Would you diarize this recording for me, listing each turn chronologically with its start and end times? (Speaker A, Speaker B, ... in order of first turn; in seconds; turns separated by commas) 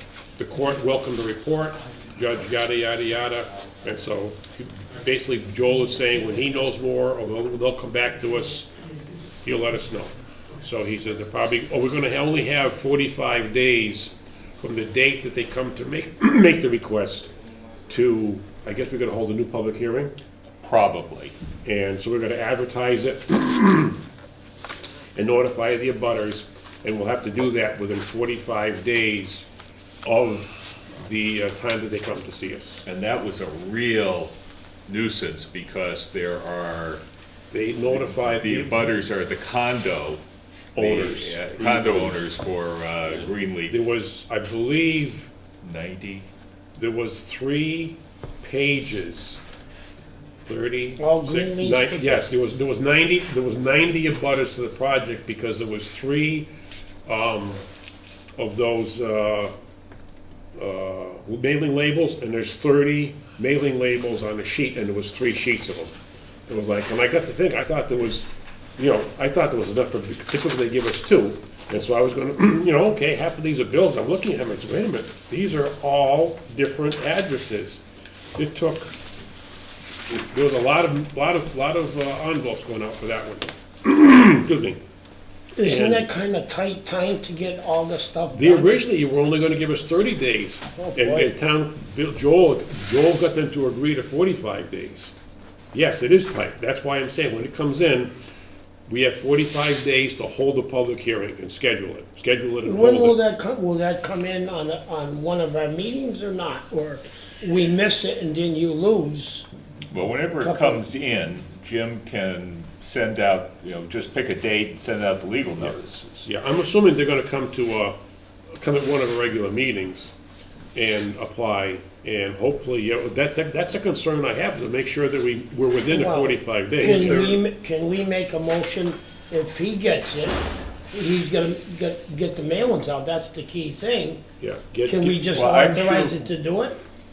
Speaker A: 0.4-8.7, Speaker A: 9.4-17.3, Speaker A: 17.9-20.1, Speaker B: 20.6-21.3, Speaker A: 21.6-24.0, Speaker A: 25.1-29.5, Speaker A: 30.0-32.8, Speaker B: 32.8-34.3, Speaker B: 34.9-37.0, Speaker A: 37.5-38.9, Speaker B: 37.9-40.2, Speaker A: 40.7-42.2, Speaker B: 40.7-43.8, Speaker A: 43.7-45.3, Speaker B: 45.6-46.3, Speaker A: 46.8-49.4, Speaker A: 50.4-56.5, Speaker C: 51.0-52.2, Speaker A: 57.0-57.6, Speaker A: 58.4-59.5, Speaker A: 60.5-65.9, Speaker A: 66.5-77.8, Speaker A: 78.3-78.9, Speaker A: 80.2-84.8, Speaker C: 85.5-88.8, Speaker A: 85.6-86.1, Speaker A: 88.3-95.1, Speaker C: 90.7-91.3, Speaker A: 95.7-98.1, Speaker A: 98.9-103.2, Speaker C: 102.6-109.5, Speaker B: 109.9-116.3, Speaker C: 110.3-110.8, Speaker A: 116.2-118.0, Speaker A: 118.5-120.1, Speaker A: 120.7-127.3, Speaker C: 125.9-134.2, Speaker B: 126.8-127.4, Speaker A: 134.4-135.3, Speaker C: 134.8-136.8, Speaker B: 135.3-136.2